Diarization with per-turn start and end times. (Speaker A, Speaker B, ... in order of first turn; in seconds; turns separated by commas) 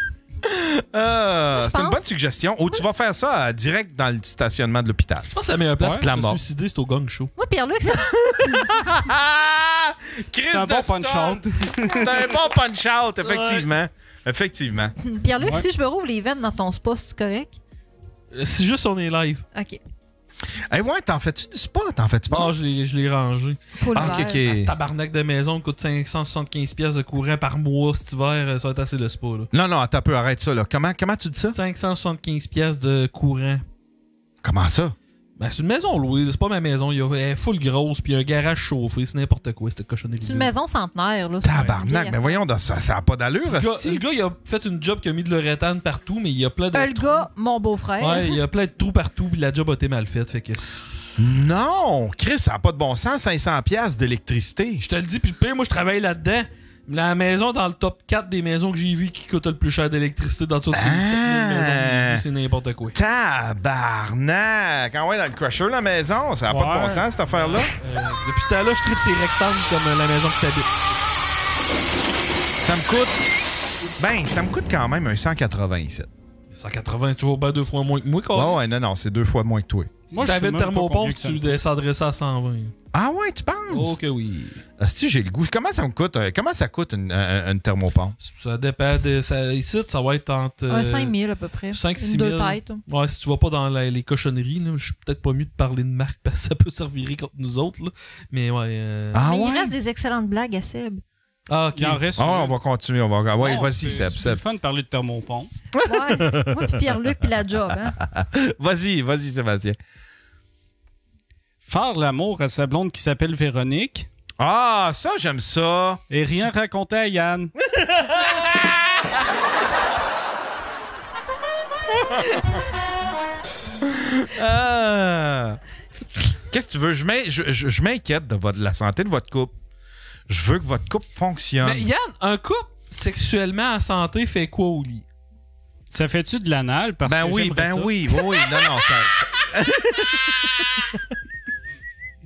Speaker A: 0.5-5.3, Speaker B: 1.6-2.0, Speaker C: 5.3-7.3, Speaker D: 5.8-6.1, Speaker A: 6.0-6.4, Speaker B: 7.4-8.7, Speaker A: 7.9-14.9, Speaker D: 10.5-12.4, Speaker C: 13.2-13.7, Speaker B: 15.0-17.6, Speaker D: 15.4-15.7, Speaker C: 18.3-19.4, Speaker B: 19.5-19.8, Speaker A: 20.7-22.5, Speaker C: 22.3-29.5, Speaker B: 23.8-24.4, Speaker A: 23.9-24.7, Speaker A: 29.5-31.6, Speaker C: 31.4-33.6, Speaker A: 34.4-35.0, Speaker C: 35.4-40.5, Speaker B: 40.2-42.4, Speaker A: 41.4-44.0, Speaker C: 43.5-47.3, Speaker B: 46.7-48.4, Speaker C: 48.0-50.8, Speaker A: 51.2-54.9, Speaker C: 54.8-63.0, Speaker A: 60.7-62.2, Speaker A: 62.9-67.7, Speaker D: 66.5-67.1, Speaker C: 67.2-70.7, Speaker A: 72.6-73.2, Speaker A: 74.0-76.1, Speaker C: 76.5-78.7, Speaker A: 78.3-79.9, Speaker D: 80.1-81.4, Speaker C: 80.2-82.8, Speaker A: 82.9-84.0, Speaker C: 83.7-84.6, Speaker A: 84.8-88.2, Speaker C: 88.2-91.1, Speaker B: 90.7-92.8, Speaker C: 91.7-99.2, Speaker A: 99.1-99.7, Speaker B: 99.2-101.0, Speaker C: 101.5-102.1, Speaker D: 101.7-102.5, Speaker A: 102.2-104.4, Speaker D: 103.4-105.5, Speaker A: 105.8-106.8, Speaker B: 105.8-108.0, Speaker A: 108.0-109.8, Speaker D: 111.7-114.1, Speaker A: 114.4-116.0, Speaker D: 116.1-117.5, Speaker A: 117.7-118.8, Speaker A: 123.9-125.6, Speaker A: 126.5-129.6, Speaker A: 130.3-131.9, Speaker C: 131.6-135.1, Speaker D: 135.9-137.9, Speaker A: 137.1-140.9